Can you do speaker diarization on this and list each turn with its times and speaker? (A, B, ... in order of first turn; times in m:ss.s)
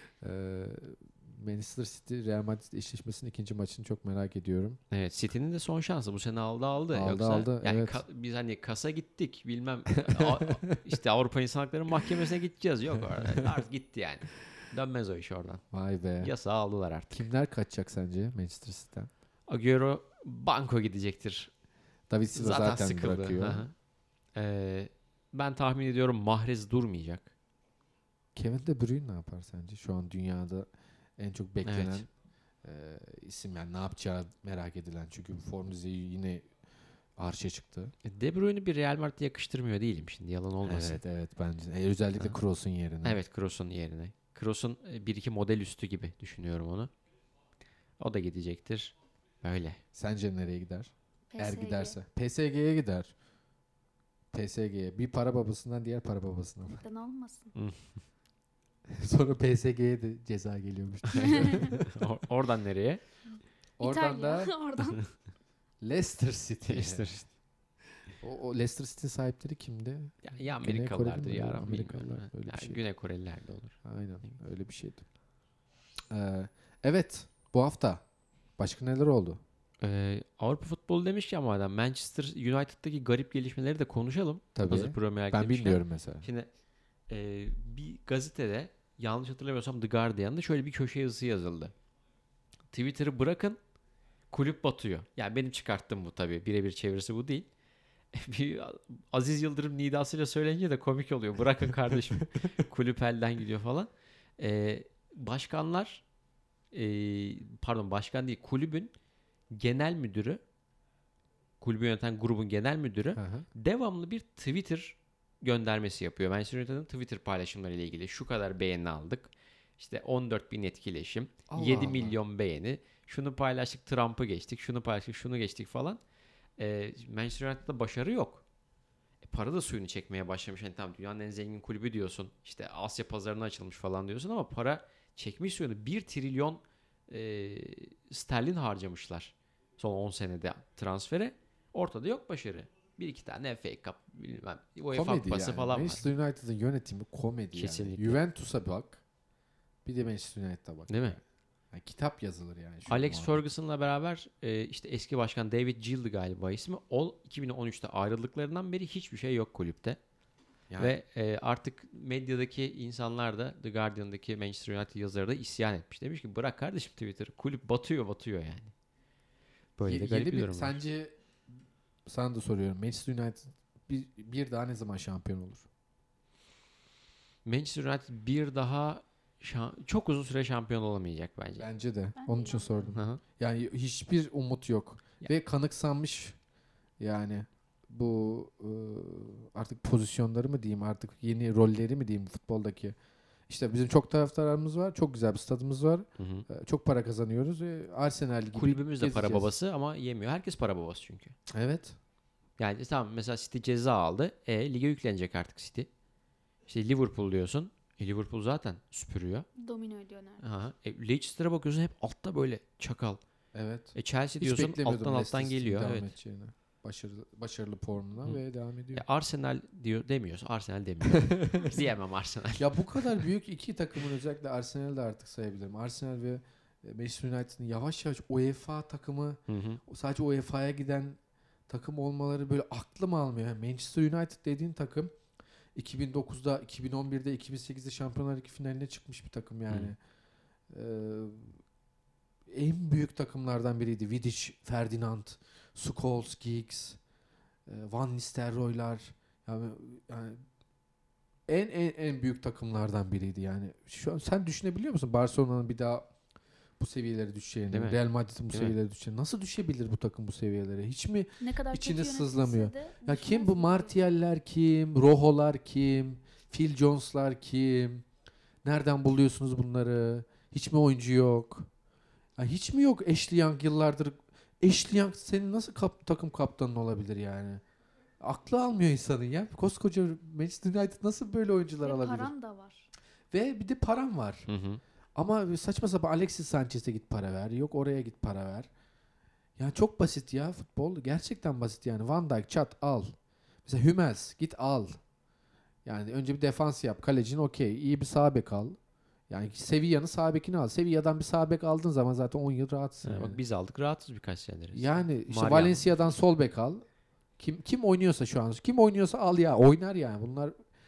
0:00.2-0:04.8 A
0:04.9-0:15.6 B
0:06.9-0:08.0 A
0:10.1-0:11.0 A
0:12.9-0:13.6 A
0:15.7-0:16.3 A
0:16.2-0:17.3 B
0:17.1-0:19.1 A
0:19.5-0:21.5 B
0:22.1-0:23.7 A
0:22.3-0:23.7 B
0:24.4-0:27.3 B
0:28.4-0:32.1 A
0:31.6-0:32.0 B
0:32.6-0:36.5 A
0:37.2-0:37.9 A
0:38.0-0:41.0 B
0:40.6-0:43.2 A
0:43.0-0:46.9 B
0:48.0-0:49.8 B
0:49.9-0:53.1 A
0:51.3-0:52.0 C
0:54.3-0:56.8 A
0:56.8-0:57.6 C
0:57.6-0:58.0 B
0:58.9-1:01.9 A
1:01.1-1:03.0 B
1:01.4-1:01.7 C
1:03.4-1:05.1 C
1:03.8-1:04.6 A
1:05.8-1:07.1 A
1:06.7-1:07.3 B
1:08.2-1:12.8 A
1:10.2-1:13.8 B
1:13.8-1:15.0 A
1:16.1-1:18.0 A
1:18.6-1:19.4 A
1:19.8-1:26.5 B
1:24.6-1:26.3 A
1:27.1-1:31.7 B
1:32.7-1:33.6 B
1:34.3-1:37.5 B
1:38.1-1:46.0 B
1:46.7-1:48.9 B
1:49.5-1:50.4 B
1:51.6-2:06.0 B
1:53.2-1:53.5 A
2:01.5-2:02.2 A
2:06.6-2:08.4 B
2:09.2-2:26.0 B
2:24.9-2:29.0 A
2:27.6-2:28.2 B
2:29.8-2:33.5 A
2:30.9-2:31.2 B
2:32.9-2:40.0 B
2:40.7-2:41.0 A
2:40.8-2:48.7 B
2:49.8-2:50.8 B
2:49.8-2:51.2 A
2:52.1-2:55.6 A
2:57.4-3:01.7 B
3:01.6-3:06.4 A
3:02.2-3:02.9 C
3:02.9-3:03.2 B
3:07.0-3:13.0 A
3:13.5-3:19.5 A
3:16.2-3:16.5 B
3:18.5-3:21.4 B
3:21.5-3:22.0 A
3:22.6-3:25.9 B
3:26.7-3:29.5 B
3:29.6-3:30.4 C
3:30.4-3:33.2 B
3:33.5-3:39.0 A
3:34.0-3:36.1 B
3:38.9-3:43.2 B
3:41.1-3:41.8 A
3:42.6-3:55.2 A
3:49.5-3:49.8 B
3:55.8-4:00.0 A
4:00.7-4:01.6 A
4:02.5-4:07.0 A
4:07.7-4:10.4 A
4:11.5-4:16.1 A
4:16.8-4:28.0 A
4:17.7-4:18.0 B
4:21.4-4:24.0 C
4:28.6-4:31.7 A
4:32.4-4:37.6 A
4:38.2-4:42.3 A
4:41.8-4:42.9 C
4:43.3-4:44.5 A
4:44.5-4:44.8 B
4:45.2-4:48.7 A
4:49.6-4:53.2 A
4:53.7-4:55.0 A
4:55.8-4:58.8 A
4:59.3-5:03.4 A
5:03.0-5:05.8 B
5:04.7-5:06.8 A
5:07.4-5:10.6 A